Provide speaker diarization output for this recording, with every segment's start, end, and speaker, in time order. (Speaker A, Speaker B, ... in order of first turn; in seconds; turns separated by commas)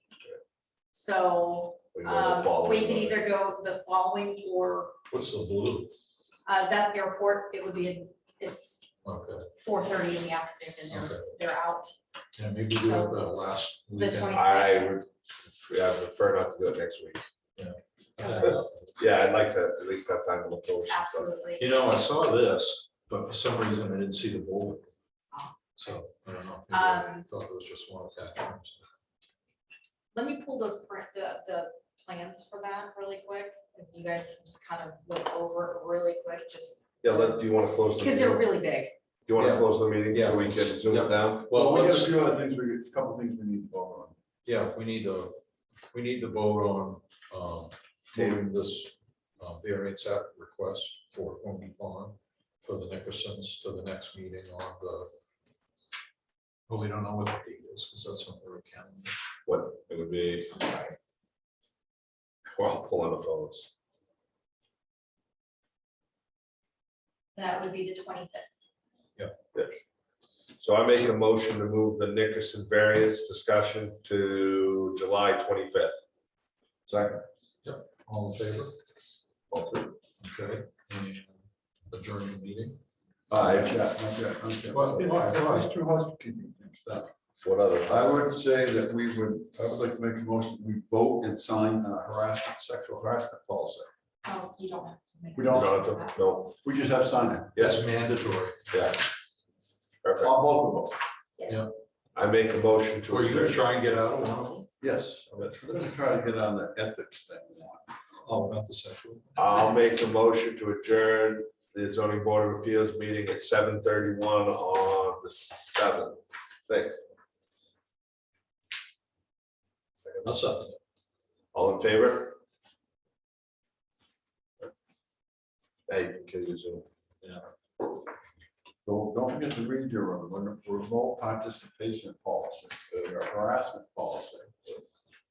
Speaker A: 0.9-5.0, Speaker B: 1.9-3.3, Speaker C: 5.1-5.9, Speaker A: 6.5-8.9, Speaker C: 9.0-9.5, Speaker A: 9.6-11.9, Speaker C: 10.9-11.3, Speaker C: 12.3-14.4, Speaker A: 12.8-13.2, Speaker A: 13.9-14.9, Speaker B: 14.3-17.2, Speaker C: 17.6-19.0, Speaker B: 19.0-21.3, Speaker A: 20.9-21.8, Speaker C: 21.6-24.9, Speaker A: 25.3-25.9, Speaker C: 25.7-28.8, Speaker A: 26.7-27.2, Speaker A: 30.1-37.4, Speaker B: 37.0-38.5, Speaker A: 37.9-39.0, Speaker B: 39.3-41.5, Speaker C: 39.4-42.1, Speaker D: 41.5-44.1, Speaker C: 44.4-45.4, Speaker C: 45.9-55.1, Speaker B: 48.1-48.4, Speaker C: 56.7-59.1, Speaker B: 59.5-60.5, Speaker A: 60.5-61.0, Speaker B: 62.5-63.7, Speaker A: 67.3-68.5, Speaker B: 70.6-76.0, Speaker D: 76.9-77.2, Speaker C: 77.6-78.7, Speaker C: 80.2-81.3, Speaker C: 81.9-82.8, Speaker D: 83.3-87.1, Speaker B: 83.4-83.7, Speaker C: 84.7-85.7, Speaker B: 87.4-88.2, Speaker D: 87.9-93.9, Speaker A: 94.2-96.2, Speaker D: 95.3-95.8, Speaker B: 95.5-96.5, Speaker D: 96.6-97.7, Speaker B: 97.5-97.8, Speaker C: 97.6-98.6, Speaker B: 98.7-99.0, Speaker B: 100.0-100.3, Speaker D: 100.2-101.0, Speaker A: 101.4-101.6, Speaker B: 102.1-103.6, Speaker C: 103.1-104.7, Speaker D: 104.8-108.3, Speaker C: 108.2-109.6, Speaker B: 109.4-117.0, Speaker C: 120.2-120.8, Speaker B: 121.5-122.4, Speaker B: 125.9-126.8, Speaker D: 128.8-134.8